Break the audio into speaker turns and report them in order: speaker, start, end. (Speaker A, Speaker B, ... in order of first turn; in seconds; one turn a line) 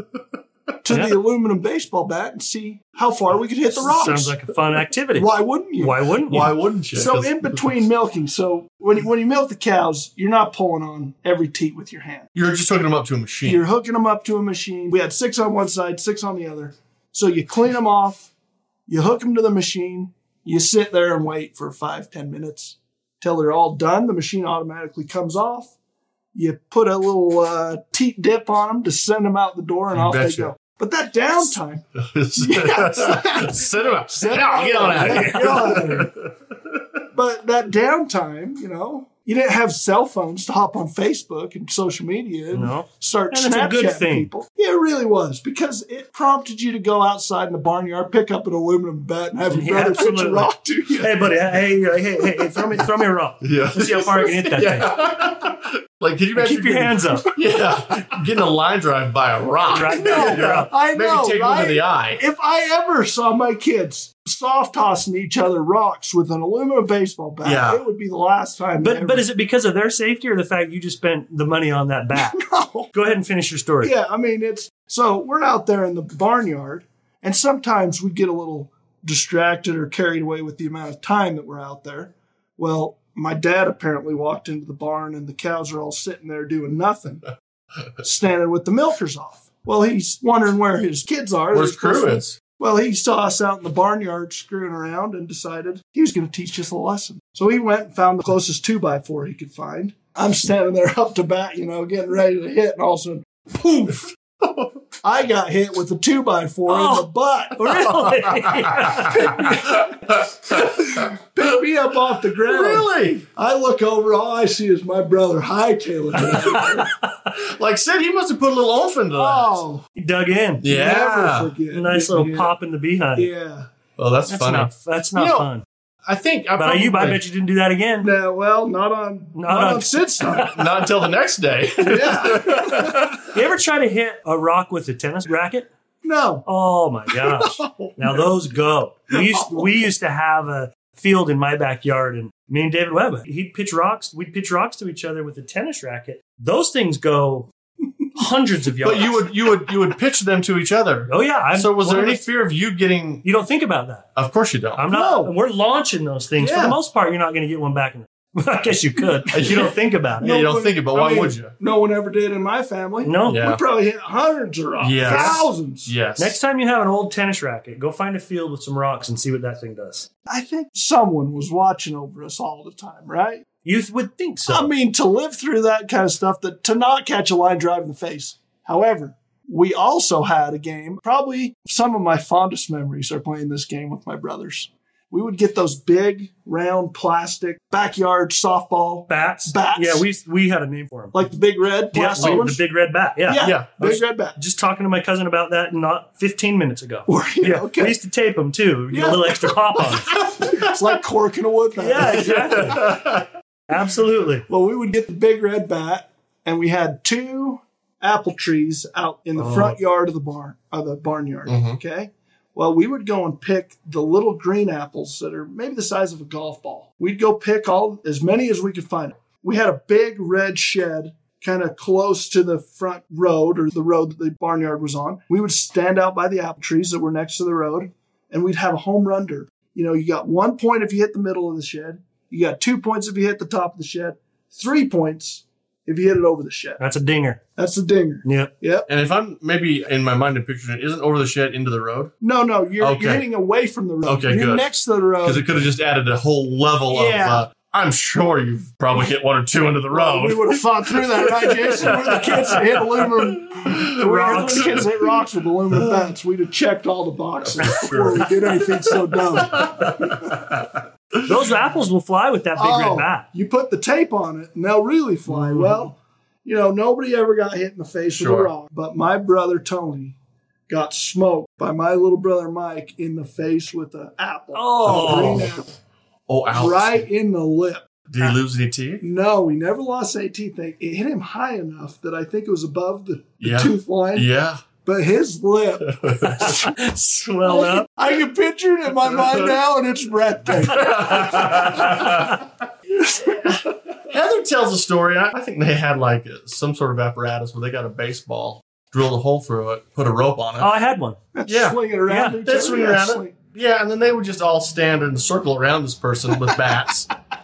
Speaker A: 0.8-4.4
Speaker B: 0.9-1.2
Speaker B: 3.7-6.5
Speaker A: 5.2-6.0
Speaker C: 6.3-7.6
Speaker A: 6.9-12.3
Speaker C: 12.3-13.6
Speaker A: 13.5-18.3
Speaker A: 18.9-25.8
Speaker A: 26.3-36.1
Speaker C: 29.9-30.5
Speaker C: 31.9-36.8
Speaker B: 34.9-35.9
Speaker A: 37.1-51.4
Speaker B: 42.5-44.3
Speaker B: 49.5-55.0
Speaker C: 53.4-62.2
Speaker B: 56.4-57.3
Speaker B: 59.7-60.7
Speaker A: 59.9-69.3
Speaker C: 67.4-67.8
Speaker B: 68.8-73.9
Speaker A: 72.1-72.9
Speaker A: 73.8-87.2
Speaker A: 88.0-104.0
Speaker C: 91.5-92.4
Speaker C: 104.4-104.7
Speaker A: 105.0-107.9
Speaker B: 106.7-109.3
Speaker C: 107.8-111.1
Speaker A: 108.8-116.9
Speaker C: 112.4-113.3
Speaker B: 116.2-117.1
Speaker C: 117.3-119.6
Speaker A: 119.2-119.9
Speaker B: 120.0-120.6
Speaker C: 120.6-121.5
Speaker A: 120.6-122.5
Speaker B: 121.7-123.3
Speaker A: 123.2-123.7
Speaker C: 124.0-125.5
Speaker B: 124.3-125.6
Speaker C: 126.1-127.2
Speaker B: 126.6-128.1
Speaker A: 128.0-130.6
Speaker B: 129.3-130.7
Speaker C: 130.5-133.3
Speaker A: 131.8-133.1
Speaker B: 133.2-135.7
Speaker A: 136.0-136.4
Speaker B: 136.5-147.5
Speaker A: 137.4-138.2
Speaker A: 139.1-139.8
Speaker B: 148.2-149.3
Speaker C: 148.8-153.2
Speaker B: 151.1-152.2
Speaker B: 153.2-154.1
Speaker C: 154.2-154.8
Speaker B: 154.8-160.3
Speaker A: 154.9-155.3
Speaker A: 156.4-156.8
Speaker C: 159.3-161.5
Speaker A: 159.4-159.7
Speaker A: 160.2-165.9
Speaker B: 163.0-163.5
Speaker C: 163.3-163.6
Speaker C: 164.8-166.4
Speaker B: 165.1-165.4
Speaker B: 166.2-170.1
Speaker A: 170.3-173.5
Speaker B: 173.6-174.7
Speaker A: 174.5-190.1
Speaker B: 189.1-191.2
Speaker A: 191.1-192.6
Speaker B: 191.9-193.5
Speaker C: 192.2-192.5
Speaker A: 193.2-194.4
Speaker C: 193.4-194.0
Speaker B: 194.4-200.2
Speaker A: 197.1-198.0
Speaker A: 198.9-202.9
Speaker C: 200.2-200.7
Speaker B: 201.8-202.9
Speaker C: 202.1-203.3
Speaker B: 203.7-204.4
Speaker A: 204.5-236.8
Speaker B: 209.4-209.8
Speaker C: 211.5-211.8
Speaker B: 236.8-237.4
Speaker A: 237.6-238.9
Speaker B: 238.2-238.5
Speaker C: 238.9-242.1
Speaker A: 242.2-245.5
Speaker C: 242.8-243.2
Speaker C: 244.1-244.7
Speaker C: 245.2-254.8
Speaker A: 246.9-247.5
Speaker A: 249.9-260.5
Speaker B: 254.0-254.8
Speaker C: 257.4-261.3
Speaker B: 261.2-263.3
Speaker A: 262.6-270.2
Speaker B: 265.3-265.9
Speaker C: 268.2-268.5
Speaker A: 270.7-275.7
Speaker B: 274.5-275.5
Speaker C: 274.9-275.5
Speaker C: 276.3-277.1
Speaker A: 276.5-277.9
Speaker C: 278.1-279.0
Speaker A: 279.0-284.3
Speaker C: 283.4-284.6
Speaker A: 284.8-286.7
Speaker C: 285.9-286.6
Speaker B: 286.4-287.9
Speaker A: 287.4-292.2
Speaker C: 290.6-292.4
Speaker B: 291.3-292.3
Speaker A: 292.9-293.7
Speaker C: 294.1-300.7
Speaker B: 300.6-301.2
Speaker A: 301.3-303.4
Speaker C: 301.5-301.8
Speaker B: 302.1-302.4
Speaker C: 302.4-307.1